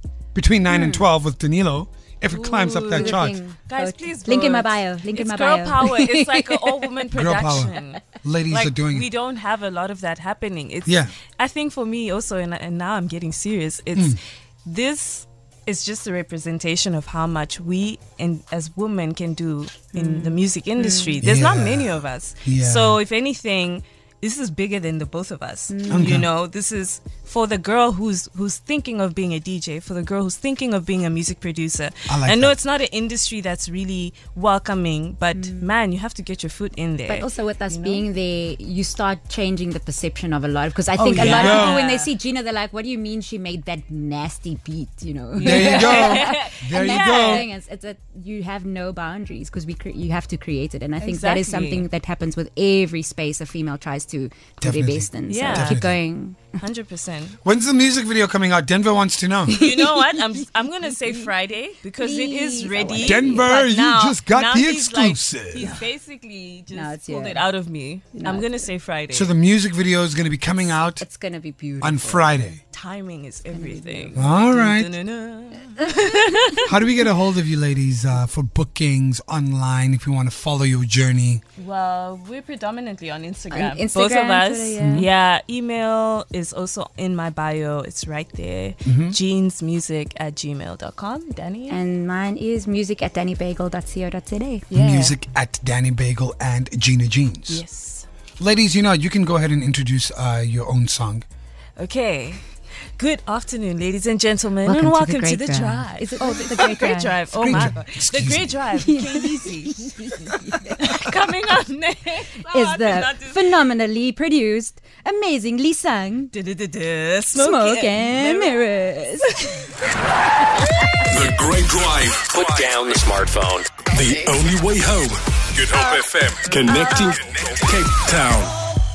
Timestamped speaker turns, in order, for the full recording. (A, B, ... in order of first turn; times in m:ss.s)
0:00.3-0:03.4 A
0:00.7-0:01.1 B
0:02.3-0:38.0 C
0:02.9-0:07.0 B
0:07.1-0:09.1 A
0:10.8-0:11.1 A
0:19.9-0:21.2 B
0:21.2-0:23.0 A
0:25.7-0:26.2 B
0:25.9-0:26.3 A
0:32.1-0:32.5 A
0:35.3-0:35.7 B
0:37.1-0:56.6 B
0:41.0-0:41.8 A
0:41.1-0:42.1 C
0:45.3-0:47.5 C
0:45.4-0:47.5 A
0:51.0-0:51.9 C
0:54.6-0:55.9 A
0:55.3-0:55.8 C
0:56.6-0:57.4 C
0:57.4-0:59.7 A
0:59.5-1:00.2 B
0:59.5-1:09.3 C
1:02.0-1:03.5 B
1:03.0-1:05.7 A
1:06.7-1:07.5 B
1:08.1-1:08.7 B
1:09.1-1:11.0 A
1:10.9-1:12.4 B
1:11.8-1:12.6 A
1:12.7-1:17.0 C
1:13.5-1:14.2 B
1:14.1-1:14.9 A
1:16.6-1:21.4 A
1:21.6-1:31.8 C
1:23.5-1:25.1 B
1:24.8-1:25.1 A
1:28.8-1:29.2 A
1:31.7-1:34.7 B
1:34.7-1:35.1 C
1:34.7-1:37.6 A
1:37.5-1:38.1 C
1:38.4-1:41.2 A
1:41.8-1:42.4 C
1:43.0-1:53.6 C
1:44.6-1:48.0 B
1:47.3-1:48.6 A
1:48.7-1:51.0 B
1:52.4-1:56.3 B
1:56.3-1:58.7 C
1:57.3-1:59.8 B
2:00.6-2:01.0 B
2:01.1-2:02.7 D
2:02.2-2:04.3 E
2:03.8-2:08.6 D
2:06.6-2:07.2 C